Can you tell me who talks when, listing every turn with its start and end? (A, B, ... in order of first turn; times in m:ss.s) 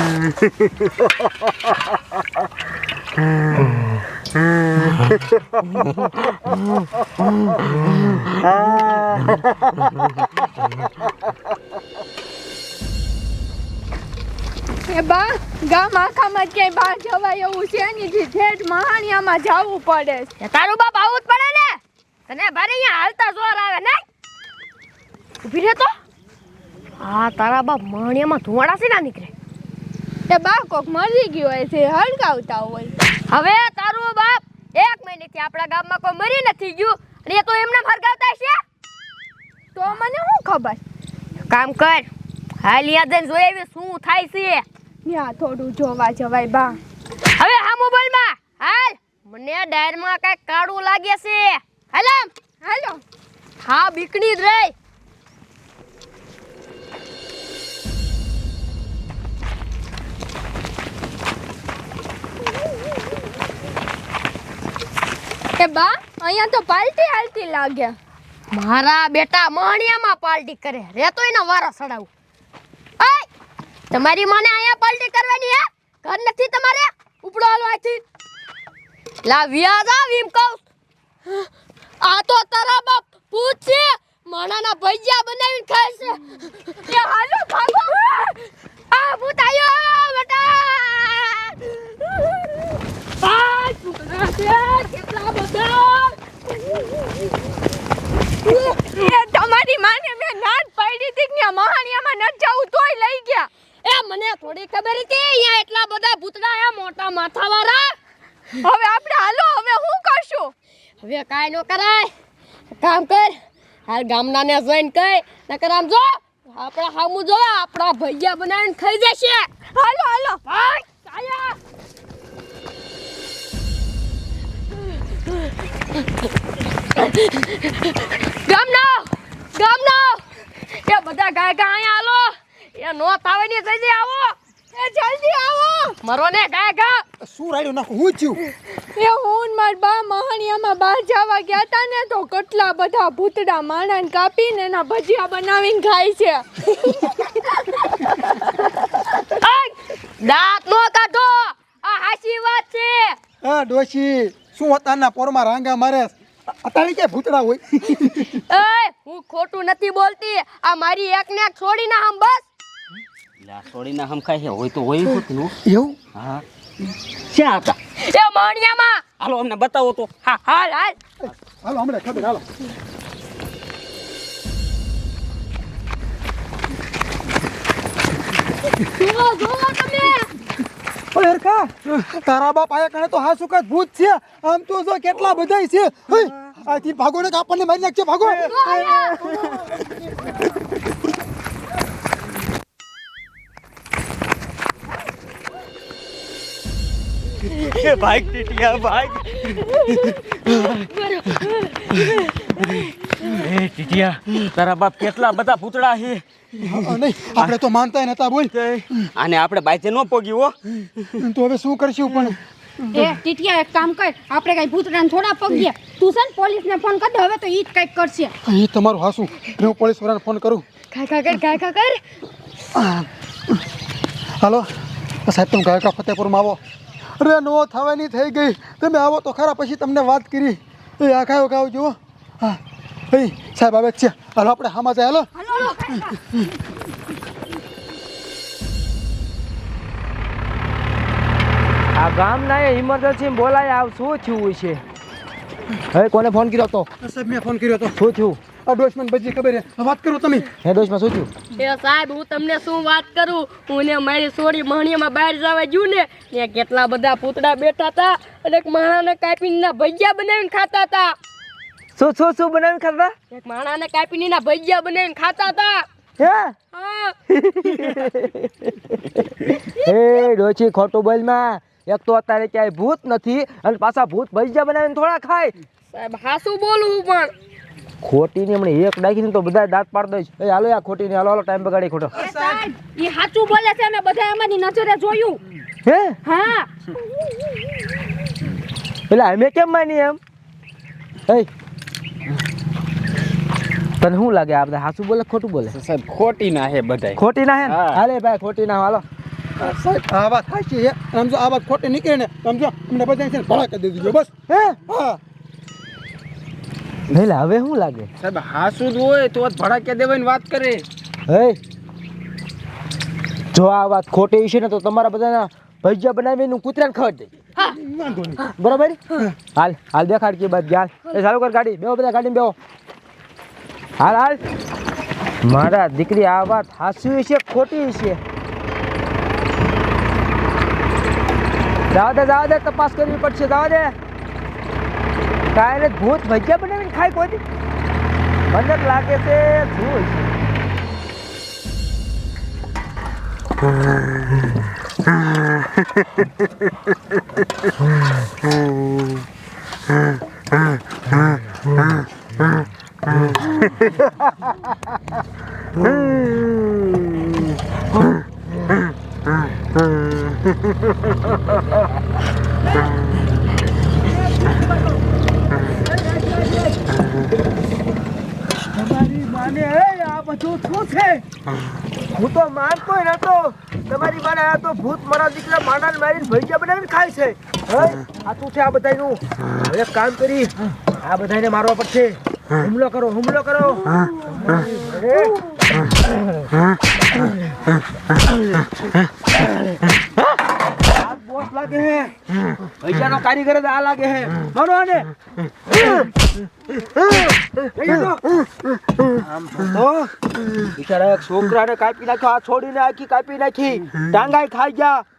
0:14.9-0:20.3 A
0:20.4-0:24.0 B
0:25.4-0:26.0 B
0:27.0-0:29.3 B
0:30.3-0:32.9 A
0:33.3-0:38.6 B
0:39.8-0:40.8 A
0:41.5-0:42.1 B
0:42.6-0:44.6 B
0:45.0-0:46.8 A
0:47.4-0:52.3 B
0:52.6-0:53.0 A
0:53.6-0:54.7 B
1:05.6-1:08.0 A
1:08.5-1:12.1 B
1:13.0-1:13.3 B
1:13.9-1:18.0 B
1:19.2-1:20.6 B
1:22.0-1:32.6 B
1:26.9-1:27.9 A
1:33.2-1:36.2 B
1:38.4-1:43.5 A
1:43.8-1:48.0 B
1:48.6-1:50.5 A
1:51.0-1:52.1 B
1:52.8-1:53.4 B
1:53.9-1:59.5 B
1:59.8-2:00.4 A
2:00.5-2:01.6 B
2:07.0-2:14.4 B
2:14.7-2:16.0 A
2:16.0-2:17.0 B
2:17.2-2:18.4 C
2:19.0-2:26.4 A
2:27.9-2:33.2 B
2:33.4-2:38.4 C
2:38.3-2:42.5 B
2:43.4-2:45.6 D
2:45.7-2:46.0 C
2:46.2-2:46.4 D
2:47.3-2:49.0 B
2:49.2-2:50.2 D
2:50.2-2:51.0 B
2:51.2-2:52.4 C
2:58.8-3:00.3 B
3:01.2-3:09.9 C
3:08.2-3:09.4 B
3:17.7-3:19.4 D
3:19.3-3:23.4 B
3:23.4-3:26.7 D
3:26.6-3:28.6 C
3:28.6-3:31.2 D
3:31.2-3:32.4 C
3:33.0-3:38.3 E
3:38.4-3:40.6 C
3:40.9-3:42.0 B
3:42.8-3:43.6 C
3:44.4-3:44.7 C
3:45.3-3:46.6 C
3:47.2-3:52.6 C
3:53.1-3:56.2 C
3:55.5-3:56.1 E
4:02.0-4:04.8 F
4:05.9-4:06.9 F
4:07.0-4:08.0 C
4:08.0-4:08.4 F
4:08.6-4:10.5 C
4:10.6-4:11.3 F
4:11.6-4:21.2 B
4:22.0-4:23.1 F
4:23.3-4:25.9 B
4:26.2-4:26.6 F
4:26.7-4:27.2 B
4:27.3-4:35.5 F
4:35.9-4:37.3 B
4:38.0-4:42.1 F
4:42.2-4:45.4 E
4:42.2-4:42.6 C
4:45.8-4:46.2 F
4:46.2-4:46.7 E
4:49.1-4:50.2 F
4:54.0-4:55.8 F
4:55.7-4:58.0 D
4:57.2-4:59.0 F
4:59.6-5:04.3 C
5:04.5-5:04.8 F
5:04.8-5:05.2 C
5:07.1-5:08.1 F
5:08.2-5:10.8 D
5:11.3-5:11.6 F
5:13.5-5:17.3 F
5:18.0-5:18.4 C
5:18.4-5:19.0 F
5:19.5-5:22.6 F
5:24.0-5:24.4 F
5:25.4-5:28.2 F
5:31.9-5:34.0 F
5:35.5-5:37.4 F
5:38.5-5:40.3 F
6:04.4-6:04.9 F
6:05.6-6:06.8 F
6:08.6-6:11.2 F
6:12.1-6:25.4 F
6:30.9-6:32.1 F
6:32.8-6:35.1 F
6:35.7-6:36.1 F
6:37.1-6:38.3 F
6:39.1-6:40.1 F
6:40.7-6:45.0 F